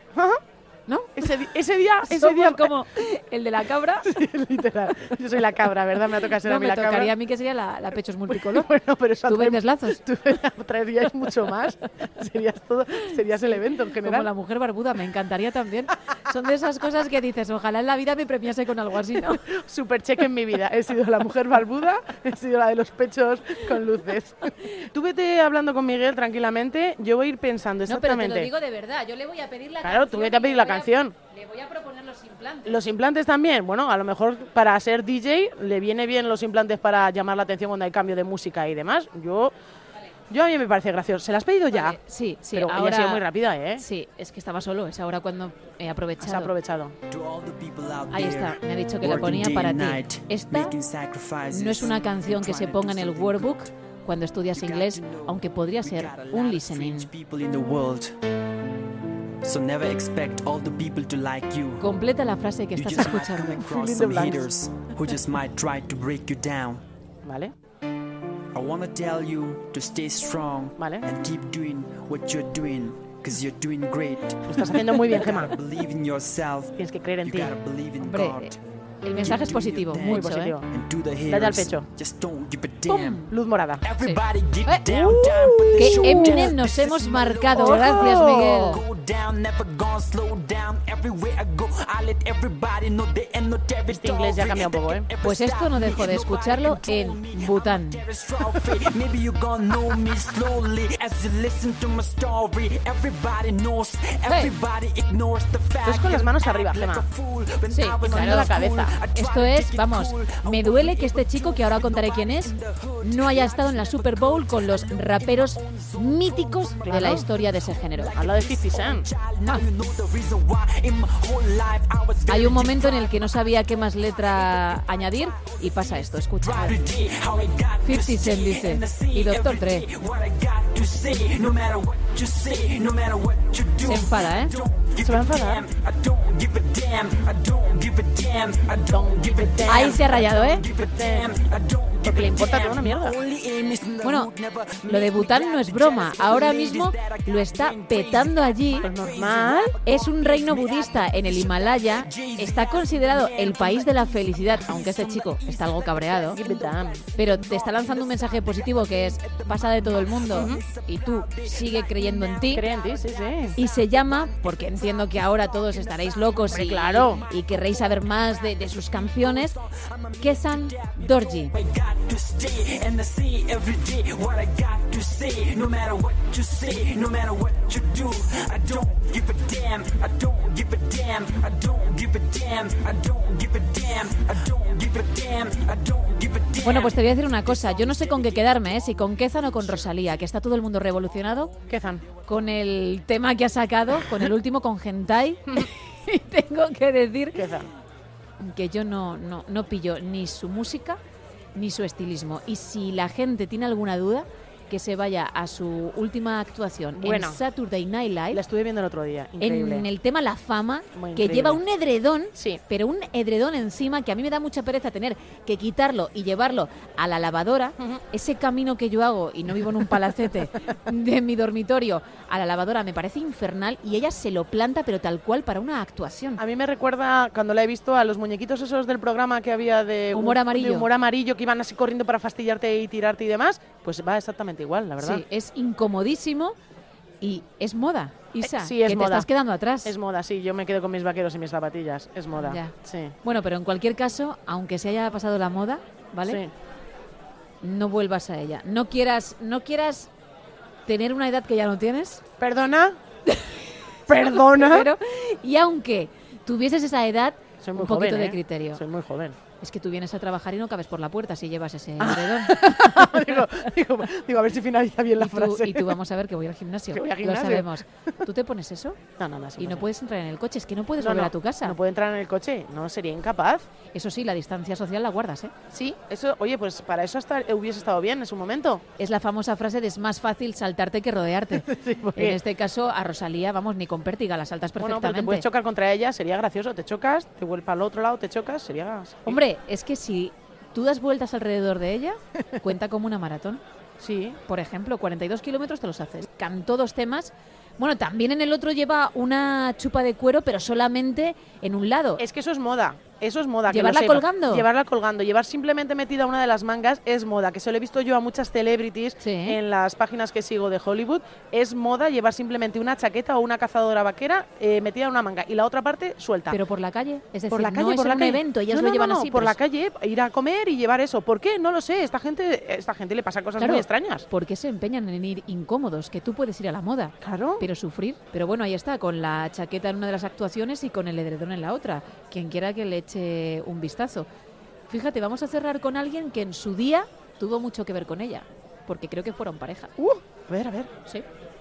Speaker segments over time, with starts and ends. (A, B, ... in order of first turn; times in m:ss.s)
0:00.1-0:00.4 A
0:00.9-0:01.3 B
0:01.2-0:02.7 A
0:02.1-0:04.2 B
0:04.0-0:07.1 A
0:06.4-0:08.7 B
0:08.3-0:14.3 A
0:09.3-0:10.0 B
0:14.0-0:19.4 B
0:19.5-0:28.5 A
0:27.9-0:32.8 B
0:29.8-0:31.2 A
0:32.7-0:39.5 A
0:40.3-0:42.0 A
0:41.7-0:43.2 B
0:42.5-0:43.8 A
0:43.8-0:46.5 B
0:46.2-0:47.0 A
0:47.1-0:53.7 C
0:48.1-0:50.8 B
0:51.5-0:57.1 B
0:54.5-0:58.2 C
0:59.4-1:01.9 C
1:01.8-1:03.7 B
1:02.8-1:06.8 C
1:03.6-1:04.5 A
1:07.2-1:07.5 A
1:08.5-1:23.2 C
1:10.8-1:11.1 A
1:14.5-1:15.5 A
1:16.8-1:17.5 A
1:18.0-1:20.5 B
1:20.0-1:20.7 A
1:21.3-1:21.9 A
1:22.9-1:23.3 B
1:23.3-1:23.9 A
1:23.8-3:09.9 C
1:24.0-1:24.8 B
1:24.9-1:26.5 A
1:25.8-1:28.8 B
1:27.5-1:28.8 A
1:33.9-1:35.1 A
1:35.2-1:38.0 B
1:44.3-1:44.5 B
1:45.8-1:47.1 A
1:47.7-1:48.5 B
1:48.0-1:49.0 A
1:49.1-1:58.1 B
1:56.9-1:57.2 A
1:58.1-1:59.1 A
2:02.3-2:06.8 B
2:07.8-2:09.9 B
2:13.8-2:14.6 B
2:15.0-2:15.6 A
2:18.9-2:21.3 A
2:19.7-2:20.6 B
2:22.0-2:23.2 A
2:24.0-2:24.3 B
2:24.9-2:28.9 B
2:28.8-2:29.8 A
2:29.8-2:36.4 B
2:36.4-2:37.0 A
2:37.2-2:42.6 B
2:40.3-2:40.6 A
2:42.5-2:43.6 A
2:43.6-2:49.6 B
2:46.5-2:47.2 A
2:50.2-2:51.5 B
3:06.6-3:11.5 B
3:11.7-3:12.0 A
3:12.2-3:17.4 B
3:17.4-3:17.7 A
3:18.4-3:21.0 B
3:21.6-3:28.4 B
3:27.0-3:27.4 A
3:28.3-3:29.9 A
3:29.4-3:46.4 B
3:31.0-3:31.6 A
3:46.4-3:55.2 A
3:50.1-3:50.9 B
3:55.0-3:56.6 B
3:57.2-4:00.0 B
3:58.4-3:59.3 A
3:59.8-4:03.2 A
4:02.4-4:06.4 B
4:07.6-4:10.1 B
4:10.9-4:12.2 B
4:12.4-4:13.0 A
4:13.3-4:18.8 B
4:14.1-4:14.9 A
4:17.6-4:19.4 A
4:19.6-4:23.3 B
4:22.0-4:25.9 A
4:25.2-4:29.0 B
4:26.9-4:27.8 A
4:29.2-4:29.9 A
4:29.6-4:31.8 B
4:31.0-4:33.7 A
4:33.9-4:35.5 B
4:35.7-4:38.8 A
4:39.0-4:45.4 B
4:41.6-4:42.4 A
4:44.8-4:49.4 A
4:49.3-4:53.6 B
4:54.0-4:54.4 A
4:54.5-5:02.2 B
5:02.2-5:16.6 A
5:03.7-5:04.7 B
5:09.2-5:09.6 B
5:16.5-5:19.6 B
5:17.5-5:24.3 A
5:23.6-5:34.3 B
5:27.2-5:27.6 A
5:34.9-5:39.9 B
5:40.0-5:40.9 A